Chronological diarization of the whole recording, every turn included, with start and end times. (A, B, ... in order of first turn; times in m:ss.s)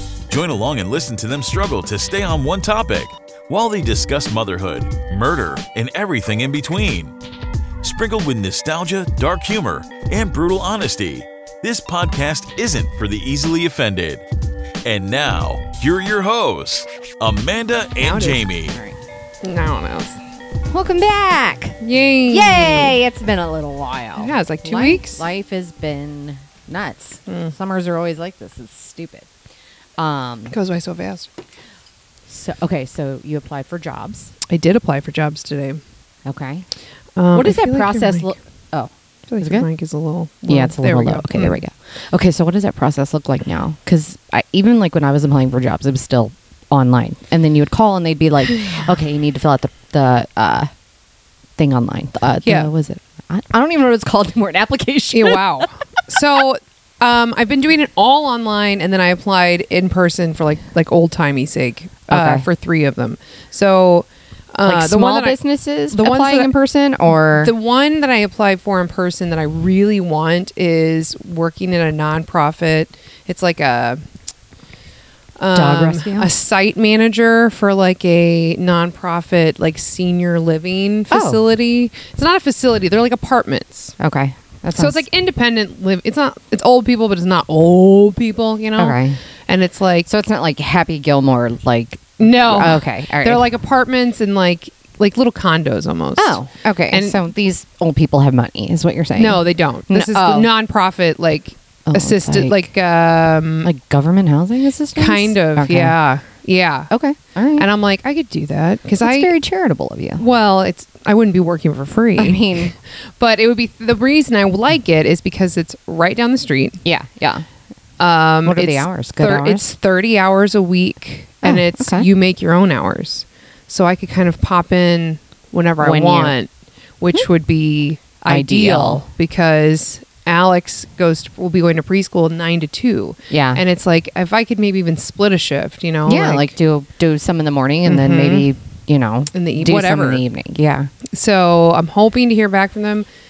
0:00.3-0:07.1 A
0:07.8-0:14.2 A
0:14.8-0:18.8 A
0:18.0-0:18.4 B
0:18.7-0:19.0 C
0:19.4-0:20.2 B
0:20.7-0:29.3 C
0:21.8-0:23.0 B
0:24.2-0:25.2 B
0:27.3-0:27.5 B
0:30.0-0:30.6 C
0:30.5-0:31.3 B
0:32.3-0:34.3 C
0:34.5-0:35.8 B
0:36.3-0:36.7 C
0:37.2-0:38.4 B
0:37.3-0:39.7 C
0:39.3-0:41.6 B
0:40.5-0:50.7 C
0:51.6-0:55.4 C
0:52.4-0:52.7 B
0:55.1-1:05.4 B
1:02.1-1:02.5 C
1:04.7-1:07.5 C
1:05.9-1:06.5 B
1:07.3-1:14.0 B
1:15.4-1:24.0 B
1:15.5-1:16.3 C
1:21.1-1:21.4 C
1:24.0-1:25.0 C
1:24.7-1:30.1 B
1:28.8-1:29.2 C
1:30.1-1:33.4 C
1:32.2-1:37.2 B
1:36.2-1:40.5 C
1:39.2-1:43.7 B
1:41.9-1:42.7 C
1:43.6-1:46.0 C
1:45.0-1:46.9 B
1:46.9-1:47.7 C
1:47.6-1:49.3 B
1:49.0-1:50.2 C
1:50.2-1:56.8 B
1:52.2-1:52.8 C
1:56.8-1:57.5 C
1:58.0-2:16.5 B
1:58.4-1:59.7 C
2:01.4-2:02.1 C
2:05.8-2:06.4 C
2:08.3-2:09.0 C
2:13.3-2:13.6 C
2:16.1-2:20.9 C
2:17.8-2:18.5 B
2:19.3-2:20.2 B
2:21.1-2:23.1 B